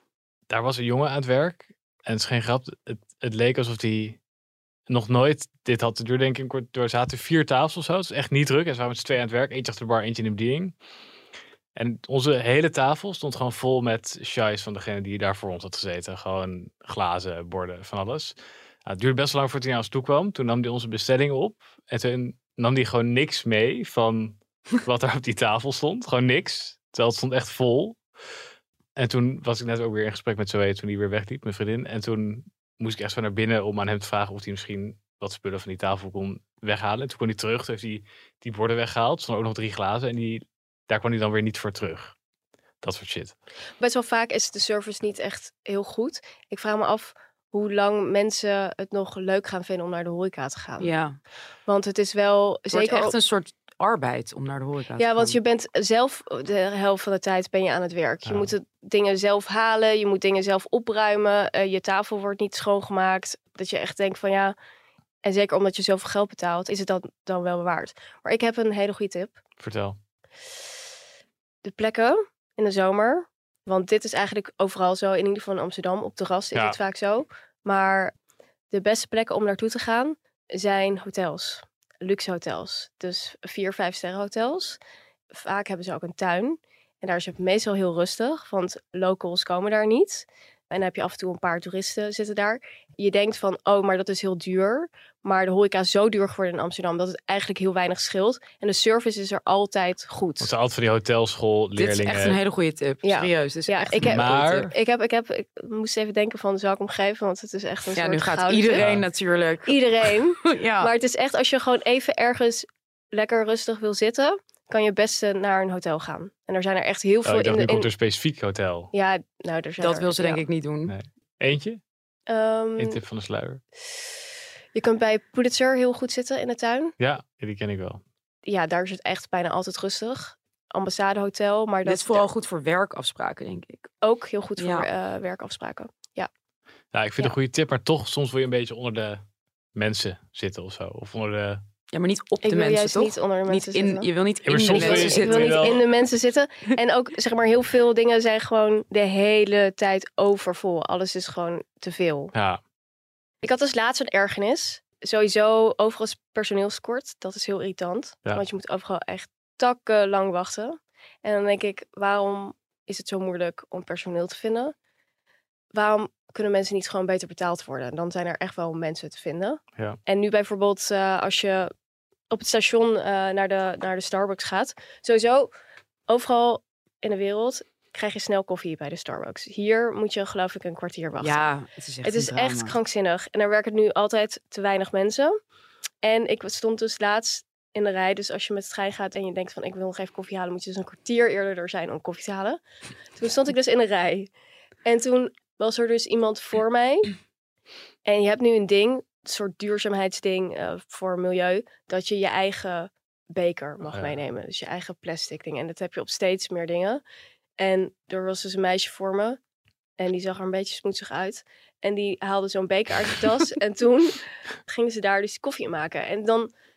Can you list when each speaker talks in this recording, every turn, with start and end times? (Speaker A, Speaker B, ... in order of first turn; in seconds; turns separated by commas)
Speaker A: 0.5-4.2, Speaker A: 4.9-10.7, Speaker A: 11.8-28.0, Speaker A: 29.0-42.1, Speaker A: 42.8-43.3, Speaker B: 43.8-50.9, Speaker C: 50.8-51.2, Speaker B: 51.7-53.2, Speaker C: 52.7-55.4, Speaker B: 55.0-64.5, Speaker A: 58.3-58.5, Speaker B: 65.2-69.4, Speaker A: 69.6-70.0, Speaker B: 71.6-78.1, Speaker B: 78.7-84.8, Speaker B: 85.3-100.5, Speaker A: 100.4-102.4, Speaker C: 101.8-104.5, Speaker B: 103.0-108.9, Speaker A: 104.0-104.7, Speaker C: 108.0-110.9, Speaker A: 108.8-109.0, Speaker B: 109.7-117.9, Speaker A: 117.2-118.9, Speaker B: 118.9-120.4, Speaker C: 119.8-121.0, Speaker A: 120.9-121.8, Speaker B: 122.3-123.0, Speaker A: 122.8-123.6, Speaker B: 124.8-126.9, Speaker A: 127.0-128.0, Speaker B: 128.5-132.3, Speaker C: 131.8-133.9, Speaker B: 134.0-136.3, Speaker C: 134.6-134.9, Speaker A: 136.9-139.2, Speaker A: 139.8-141.6, Speaker C: 141.9-145.8, Speaker B: 142.4-144.1, Speaker A: 144.4-145.8, Speaker B: 144.7-152.3, Speaker A: 152.3-152.6, Speaker B: 153.4-164.7, Speaker B: 165.7-171.7, Speaker B: 172.3-175.5, Speaker B: 176.1-181.5, Speaker C: 181.2-182.8, Speaker B: 182.0-185.4, Speaker B: 186.0-192.6, Speaker B: 193.2-194.3, Speaker B: 194.8-197.1, Speaker B: 198.1-207.0, Speaker A: 203.9-204.2, Speaker B: 207.6-209.4, Speaker B: 210.0-216.5